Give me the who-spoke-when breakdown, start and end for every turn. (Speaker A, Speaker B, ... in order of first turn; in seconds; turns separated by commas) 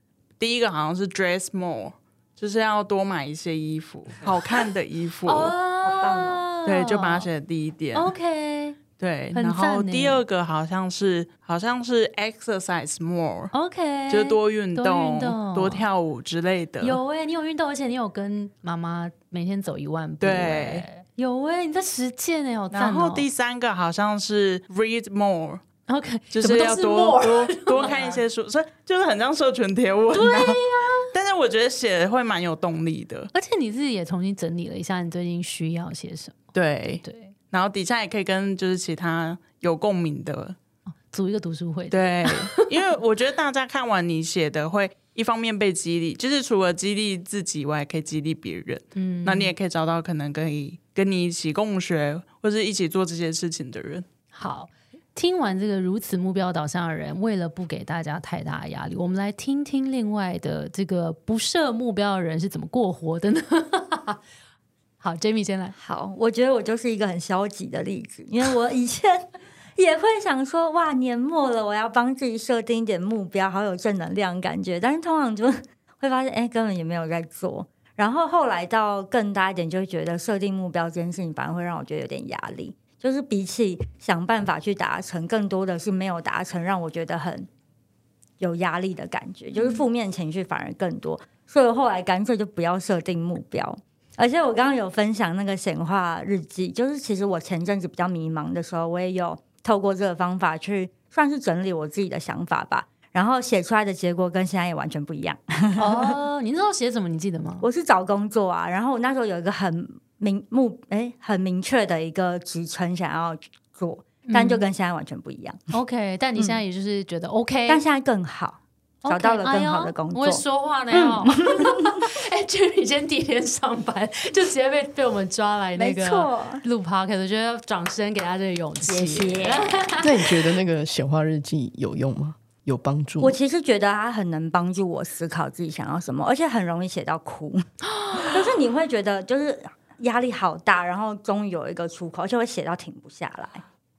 Speaker A: 0.4-5.5, Speaker B: 5.3-7.3, Speaker C: 5.8-6.4, Speaker A: 6.7-8.1, Speaker B: 8.0-8.8, Speaker A: 9.0-13.5, Speaker B: 9.3-10.2, Speaker B: 13.5-15.9, Speaker A: 14.1-17.0, Speaker B: 16.8-23.3, Speaker A: 20.2-20.9, Speaker A: 22.7-25.6, Speaker B: 25.9-28.2, Speaker A: 26.3-33.3, Speaker B: 30.1-31.1, Speaker B: 33.3-36.5, Speaker A: 36.5-40.6, Speaker B: 37.0-37.3, Speaker B: 41.1-42.7, Speaker A: 41.9-54.0, Speaker B: 49.0-49.5, Speaker B: 54.3-64.2, Speaker B: 65.0-65.8, Speaker C: 65.8-69.3, Speaker C: 69.8-87.5, Speaker C: 88.4-106.2, Speaker B: 89.5-89.8, Speaker B: 105.8-107.7, Speaker C: 107.6-115.6, Speaker B: 114.3-114.7, Speaker B: 115.7-117.8, Speaker C: 117.7-120.4, Speaker B: 119.0-130.3, Speaker C: 120.9-122.1, Speaker C: 125.8-126.6, Speaker C: 128.8-129.9, Speaker D: 130.0-133.4, Speaker C: 133.2-137.7, Speaker B: 137.8-138.4, Speaker C: 138.2-143.6